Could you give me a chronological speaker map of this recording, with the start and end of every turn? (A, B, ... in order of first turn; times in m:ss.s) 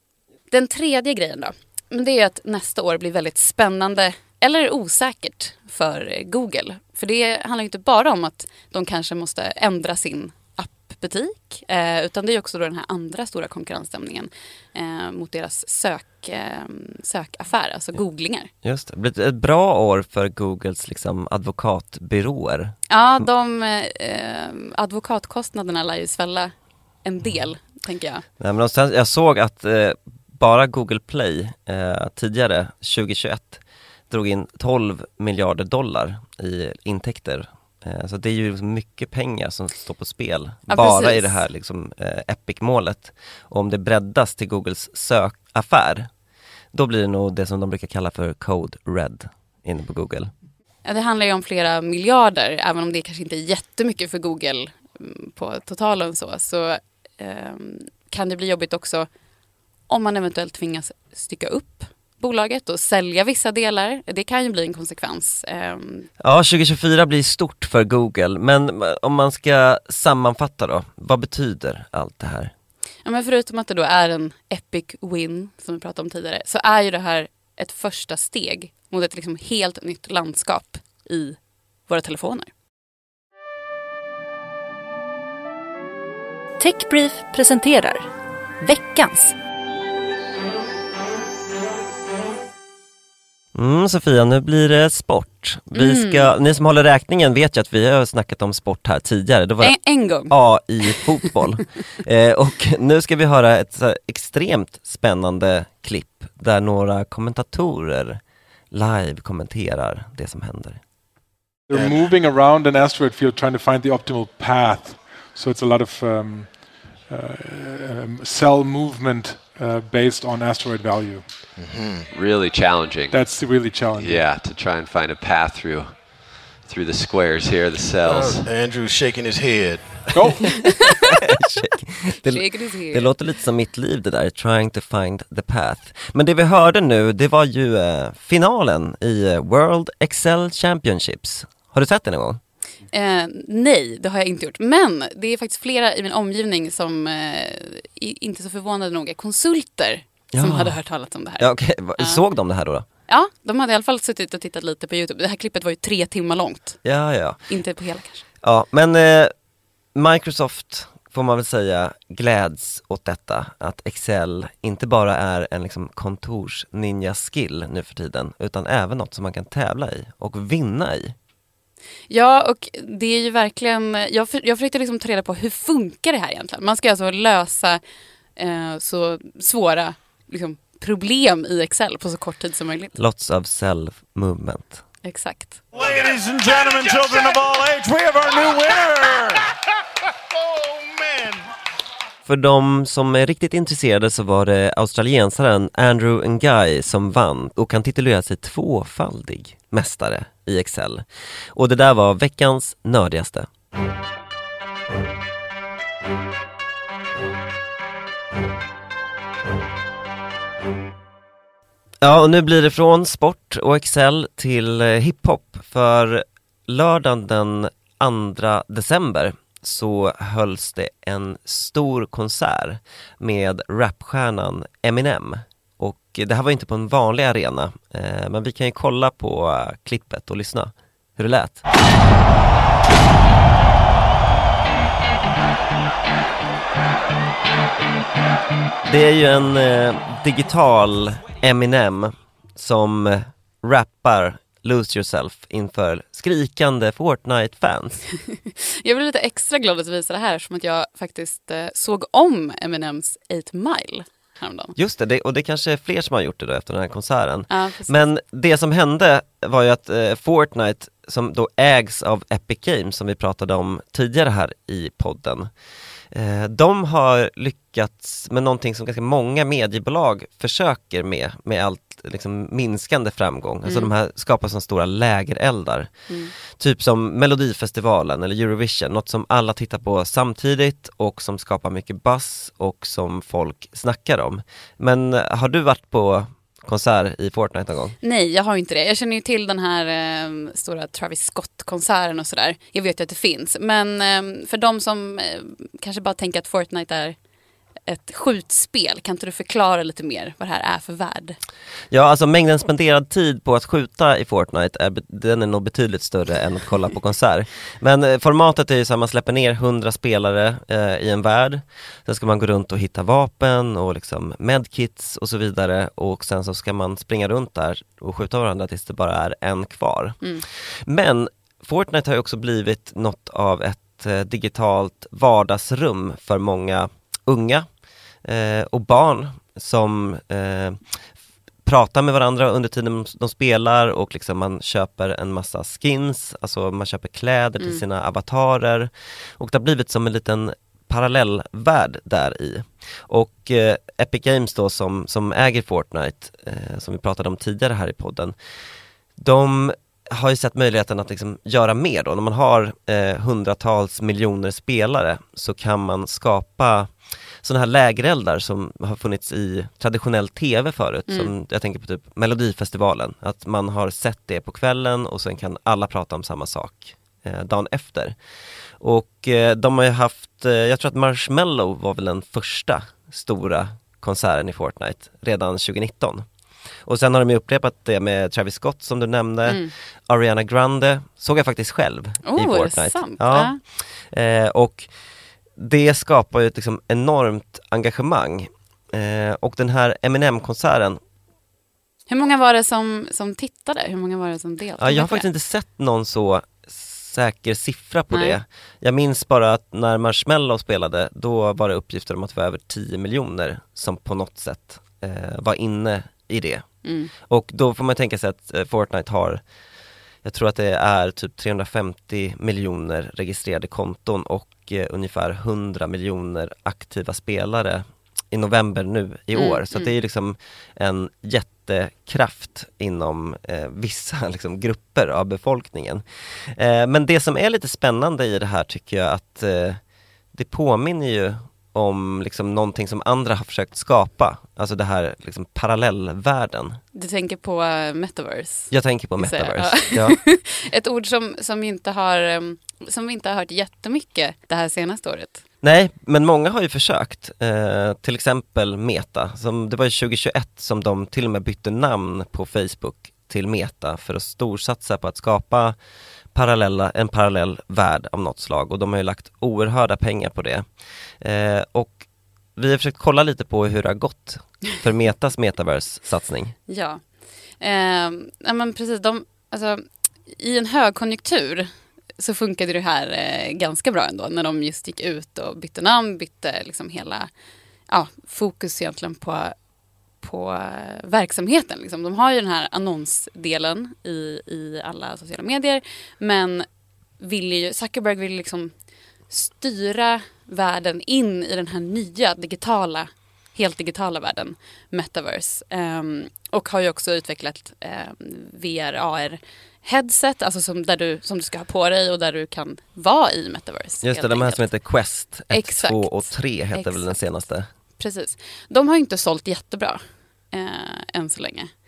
0:00.5-0:18.5 A
0:18.6-0:22.8 B
0:22.9-0:28.2 A
0:28.4-0:46.1 B
0:40.7-0:41.4 A
0:46.7-0:50.3 B
0:50.8-0:59.1 A
0:59.9-1:06.1 A
1:06.2-1:12.5 B
1:13.0-1:22.5 A
1:26.6-1:28.0 A
1:28.6-1:29.3 A
1:33.6-1:48.2 B
1:35.7-1:36.3 A
1:39.6-1:41.3 A
1:48.7-1:50.8 B
1:51.7-2:01.5 C
1:51.7-1:52.0 D
2:01.6-2:02.1 D
2:02.1-2:08.5 E
2:03.1-2:04.2 C
2:08.0-2:10.6 D
2:10.1-2:10.8 C
2:11.3-2:22.4 B
2:12.2-2:13.1 A
2:22.9-2:32.2 A
2:30.3-2:30.8 B
2:31.4-2:32.8 B
2:33.1-2:36.8 A
2:36.8-2:37.5 B
2:37.5-2:38.2 A
2:38.4-2:39.3 B
2:40.0-2:51.2 B
2:52.1-2:57.8 A
2:58.4-3:02.9 A
3:03.0-3:04.8 B
3:05.0-3:05.6 A
3:05.7-3:09.5 F
3:10.3-3:11.4 F
3:12.3-3:23.5 B
3:32.0-3:51.6 B
3:58.9-4:08.0 B
4:08.3-4:14.8 A
4:14.8-4:25.5 B
4:17.5-4:18.1 A
4:26.1-4:48.0 B
4:33.6-4:33.9 A
4:48.0-4:57.2 A
4:57.9-5:01.4 A
5:01.9-5:27.7 B
5:28.2-5:31.0 B
5:31.6-5:48.3 B
5:49.2-6:08.2 B
6:08.8-6:16.3 B
6:16.8-6:24.9 B
6:19.5-6:19.7 A
6:22.2-6:23.6 A
6:25.6-6:31.0 B
6:32.1-6:35.3 A
6:34.8-6:46.6 B
6:38.1-6:38.4 A
6:46.8-6:47.1 A
6:47.2-6:49.4 B
6:50.2-7:09.8 B
6:59.4-6:59.9 A
7:10.3-7:16.8 B
7:16.9-7:25.4 A
7:18.7-7:20.2 B
7:25.6-7:35.8 B
7:36.3-7:40.6 B
7:41.2-7:42.0 B
7:42.6-7:46.6 B
7:46.7-7:47.0 A
7:47.6-7:57.3 A
7:57.9-7:59.6 A
8:00.2-8:06.7 A
8:07.2-8:08.7 A
8:09.3-8:24.7 A
8:24.0-8:27.7 B
8:25.5-8:27.2 A
8:28.0-8:31.7 A